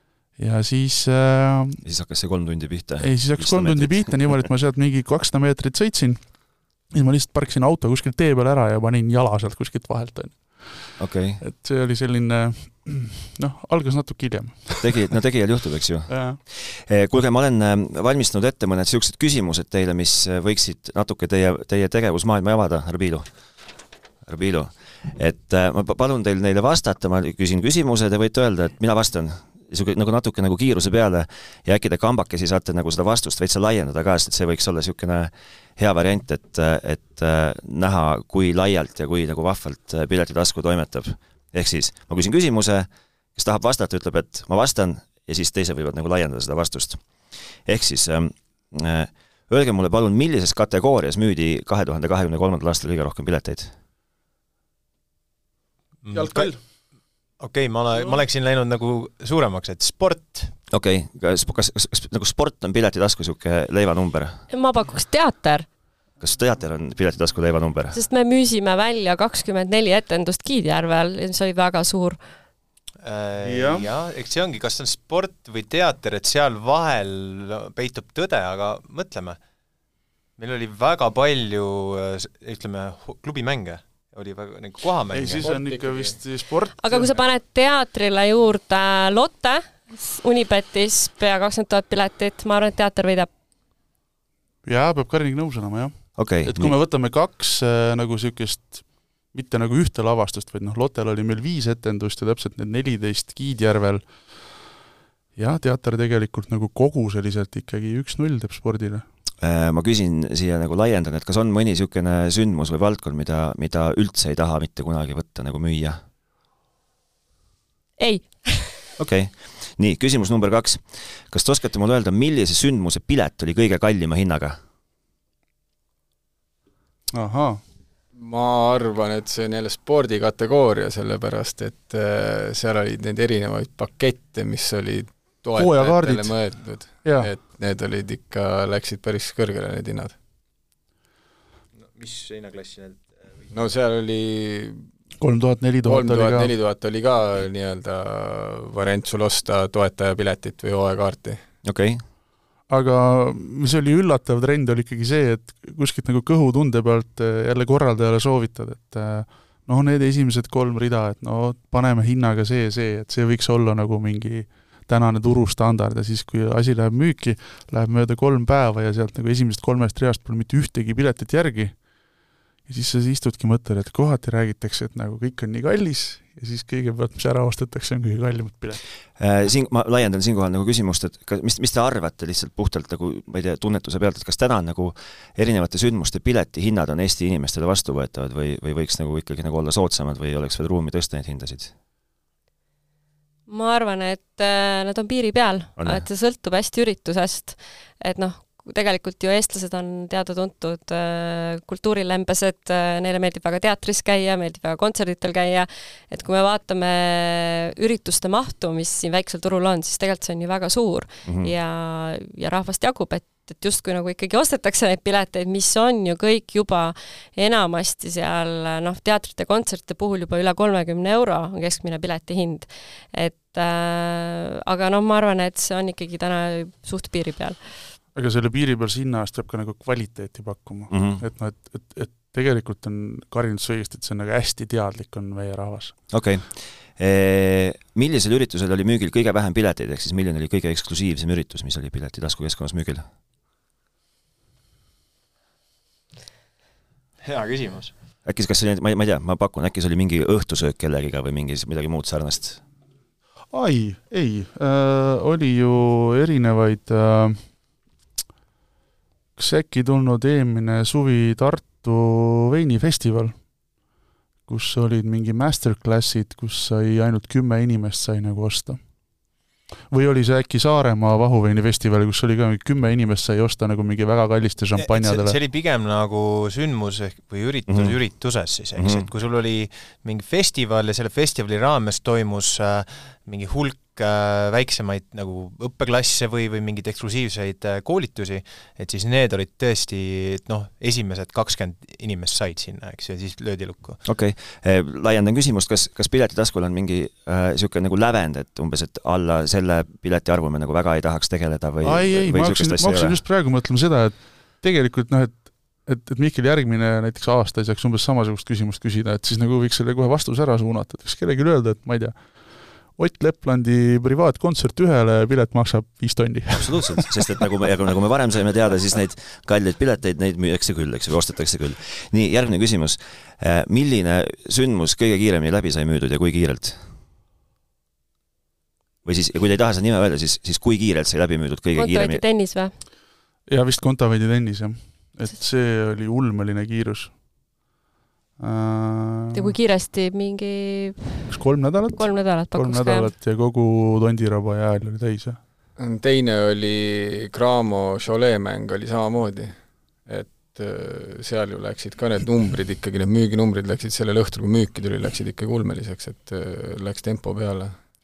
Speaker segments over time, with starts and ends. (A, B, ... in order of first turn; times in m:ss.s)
0:00.4-0:01.8 A
0:01.8-0:04.3 B
0:03.0-0:15.1 A
0:11.0-0:11.4 B
0:14.8-0:23.3 B
0:16.1-0:16.4 A
0:24.3-0:47.1 B
0:47.6-0:53.7 B
0:56.0-0:56.6 C
0:56.1-0:56.6 A
0:57.4-1:00.5 C
1:00.7-1:04.4 B
1:04.5-1:05.7 D
1:06.2-1:08.0 B
1:07.9-1:12.2 D
1:13.0-1:19.4 C
1:13.4-1:13.9 A
1:20.4-1:25.5 C
1:25.1-1:27.2 A
1:25.4-1:26.2 E
1:26.8-1:33.3 D
1:34.6-1:44.5 A
1:36.2-1:36.8 B
1:45.4-1:49.0 A
1:49.4-1:56.0 B
1:58.0-1:58.9 D
1:59.0-2:04.6 B
2:07.1-2:07.6 A
2:08.1-2:20.2 E
2:15.6-2:17.3 A
2:21.8-2:23.4 C
2:23.5-2:24.8 E
2:25.2-2:26.5 A
2:25.8-2:31.4 E
2:31.6-2:32.0 B
2:32.7-2:51.8 A
2:52.7-2:58.8 A
2:59.2-3:11.7 B
3:13.5-3:47.7 D
3:15.8-3:16.0 B
3:31.2-3:31.5 B
3:48.2-3:56.0 A
3:50.9-3:51.2 B
3:56.1-4:03.0 B
4:07.2-4:07.9 C
4:08.2-4:12.6 B
4:13.5-4:17.5 A
4:19.4-4:23.5 A
4:24.5-4:28.8 A
4:29.9-4:35.4 A
4:34.8-4:54.0 C
4:37.7-4:38.0 B
4:38.8-4:39.1 B
4:54.0-5:03.2 B
5:01.8-5:17.3 A
5:16.6-5:26.8 B
5:29.0-5:32.2 B
5:31.8-5:32.8 D
5:33.5-5:37.2 A
5:38.4-5:39.5 A
5:39.3-5:41.3 D
5:41.3-5:45.4 A
5:41.9-5:43.1 D
5:45.8-5:57.8 E